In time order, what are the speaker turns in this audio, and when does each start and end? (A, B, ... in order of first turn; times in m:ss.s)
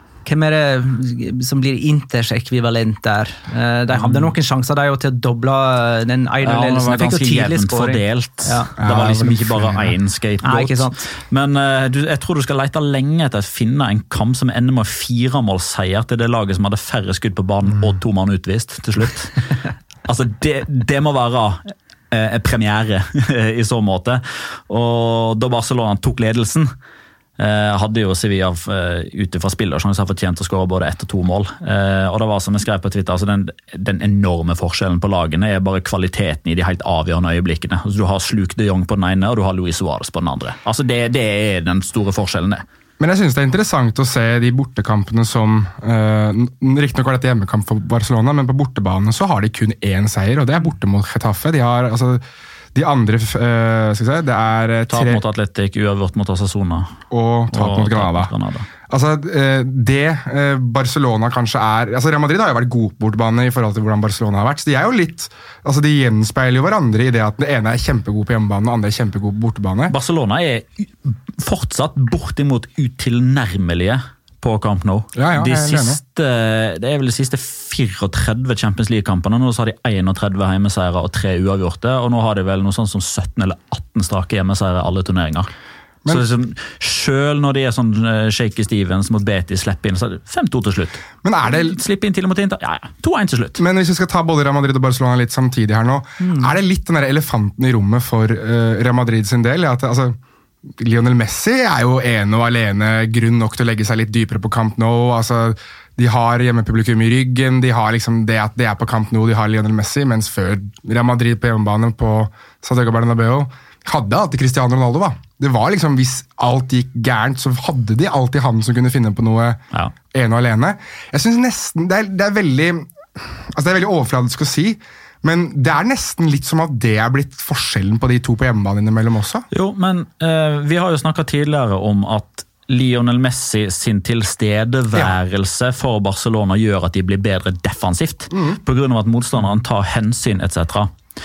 0:00.2-0:08.7 A
0:06.4-0:19.4 B
0:08.8-0:10.0 C
0:10.4-0:11.1 A
0:17.7-0:18.0 C
0:20.1-0:26.7 B
0:27.4-0:42.6 B
0:43.0-0:52.2 C
0:52.8-0:55.2 C
0:54.9-0:56.9 B
0:57.1-0:58.3 C
0:57.5-0:58.7 B
0:58.9-1:10.0 C
1:09.9-1:25.5 B
1:15.2-1:16.0 C
1:26.1-1:33.6 B
1:31.2-1:31.8 C
1:33.6-1:40.2 C
1:36.2-1:36.5 A
1:40.8-1:59.6 C
2:00.1-2:09.4 C
2:09.5-2:20.9 B
2:18.3-2:18.6 C